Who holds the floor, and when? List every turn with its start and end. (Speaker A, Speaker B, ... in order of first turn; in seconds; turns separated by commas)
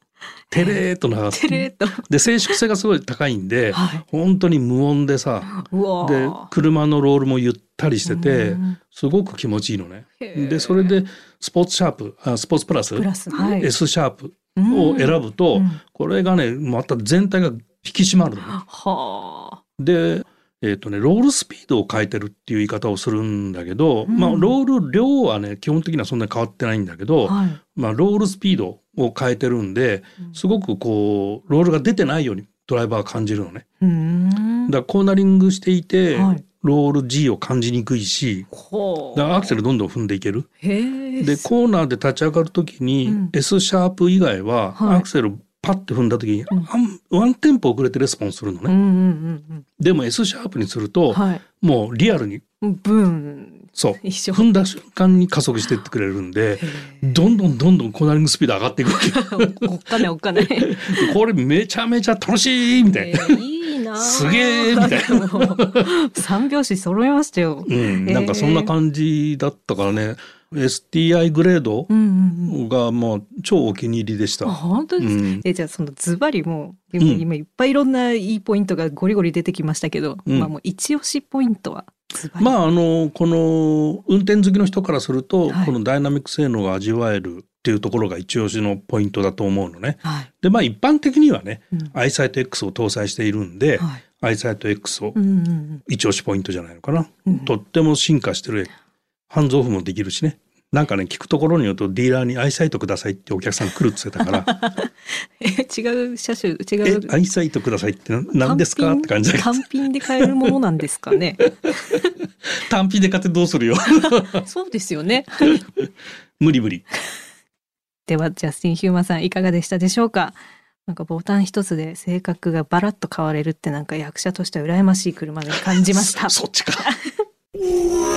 Speaker A: 0.5-18.6, Speaker B: 0.5-0.8, Speaker B: 1.3-2.6, Speaker B: 3.7-4.0, Speaker B: 5.5-6.5, Speaker B: 8.1-8.8, Speaker B: 10.2-11.0, Speaker B: 12.9-13.7, Speaker B: 14.6-15.8, Speaker B: 18.5-19.6, Speaker A: 19.8-33.6, Speaker B: 24.1-24.5, Speaker B: 27.3-27.6, Speaker B: 33.8-34.7, Speaker A: 34.7-38.5, Speaker B: 36.1-36.4, Speaker B: 38.5-39.5, Speaker A: 39.1-40.5, Speaker B: 40.6-41.5, Speaker A: 41.2-48.7, Speaker B: 43.1-43.3, Speaker B: 44.8-45.1, Speaker B: 48.7-49.6, Speaker A: 49.8-52.4, Speaker B: 51.1-51.4, Speaker B: 52.6-54.5, Speaker A: 53.8-63.4, Speaker B: 56.6-57.1, Speaker B: 59.0-61.1, Speaker B: 62.9-68.7, Speaker A: 64.0-65.9, Speaker A: 67.7-71.9, Speaker B: 71.9-72.6, Speaker A: 72.5-75.4, Speaker B: 74.4-82.5, Speaker A: 77.0-77.2, Speaker A: 82.4-95.2, Speaker B: 85.5-85.7, Speaker B: 90.0-90.3, Speaker B: 95.2-95.8, Speaker A: 95.9-98.7, Speaker A: 99.3-104.5, Speaker B: 104.2-107.2, Speaker A: 106.8-110.3, Speaker B: 108.4-112.0, Speaker A: 112.5-114.5, Speaker B: 114.4-115.6, Speaker A: 115.5-115.8, Speaker A: 116.4-116.9, Speaker B: 118.1-127.1, Speaker A: 125.5-126.9